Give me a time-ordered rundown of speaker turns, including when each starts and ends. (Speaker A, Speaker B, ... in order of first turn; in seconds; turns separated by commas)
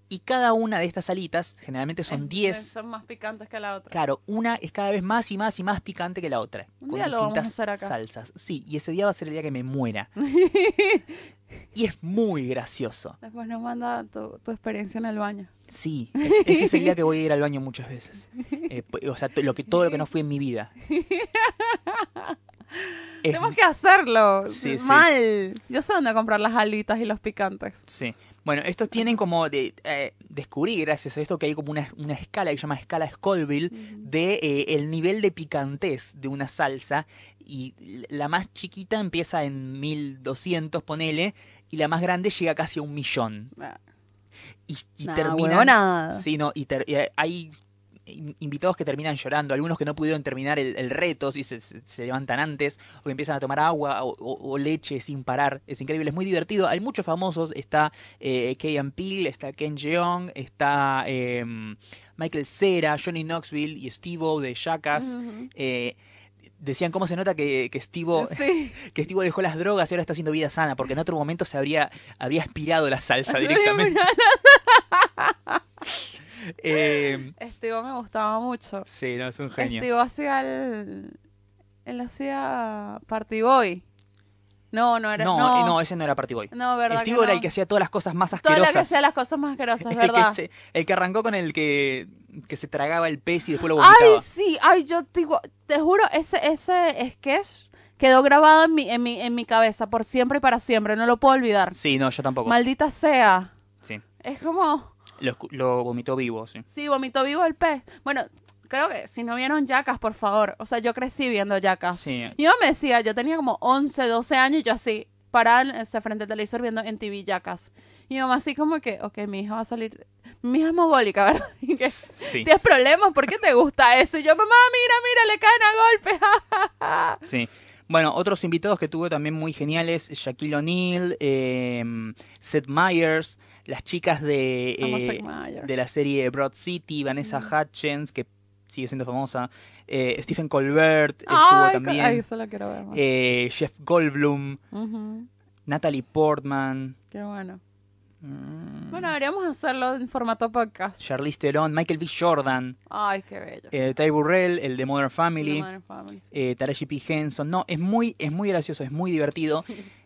Speaker A: 0.1-2.7, Speaker B: 2.1-4.0, Speaker A: 3.9-10.1, Speaker B: 6.8-7.9, Speaker B: 10.2-11.2, Speaker A: 11.7-13.2, Speaker B: 13.2-15.5, Speaker A: 15.7-20.7, Speaker B: 16.2-16.9, Speaker B: 20.8-27.8, Speaker A: 23.2-23.6, Speaker A: 24.5-25.1, Speaker A: 27.9-43.5, Speaker B: 33.8-34.0, Speaker A: 44.7-47.5, Speaker B: 45.0-46.2, Speaker A: 48.0-66.0, Speaker B: 64.9-65.5, Speaker A: 66.6-74.0, Speaker B: 68.1-68.8, Speaker B: 73.3-75.6, Speaker A: 76.2-77.3, Speaker B: 76.7-78.9, Speaker A: 78.9-79.9, Speaker B: 79.6-81.1, Speaker B: 81.8-83.8, Speaker B: 84.7-85.8, Speaker A: 85.2-89.0, Speaker B: 86.5-87.5, Speaker B: 88.3-90.4, Speaker A: 89.8-94.2, Speaker B: 93.7-101.8, Speaker A: 101.7-102.5, Speaker B: 102.4-103.5, Speaker B: 104.2-104.9, Speaker A: 105.2-106.6, Speaker B: 106.7-127.2, Speaker A: 111.9-112.3, Speaker A: 122.1-122.5, Speaker A: 127.2-142.2, Speaker B: 134.8-135.7, Speaker B: 141.3-143.0, Speaker A: 142.9-144.6, Speaker B: 144.7-145.3, Speaker A: 145.7-146.9, Speaker B: 147.1-147.6, Speaker A: 148.2-149.1, Speaker B: 148.9-151.0, Speaker A: 151.0-152.8, Speaker B: 152.9-153.7, Speaker A: 153.7-155.7, Speaker B: 155.4-156.2, Speaker A: 156.3-159.7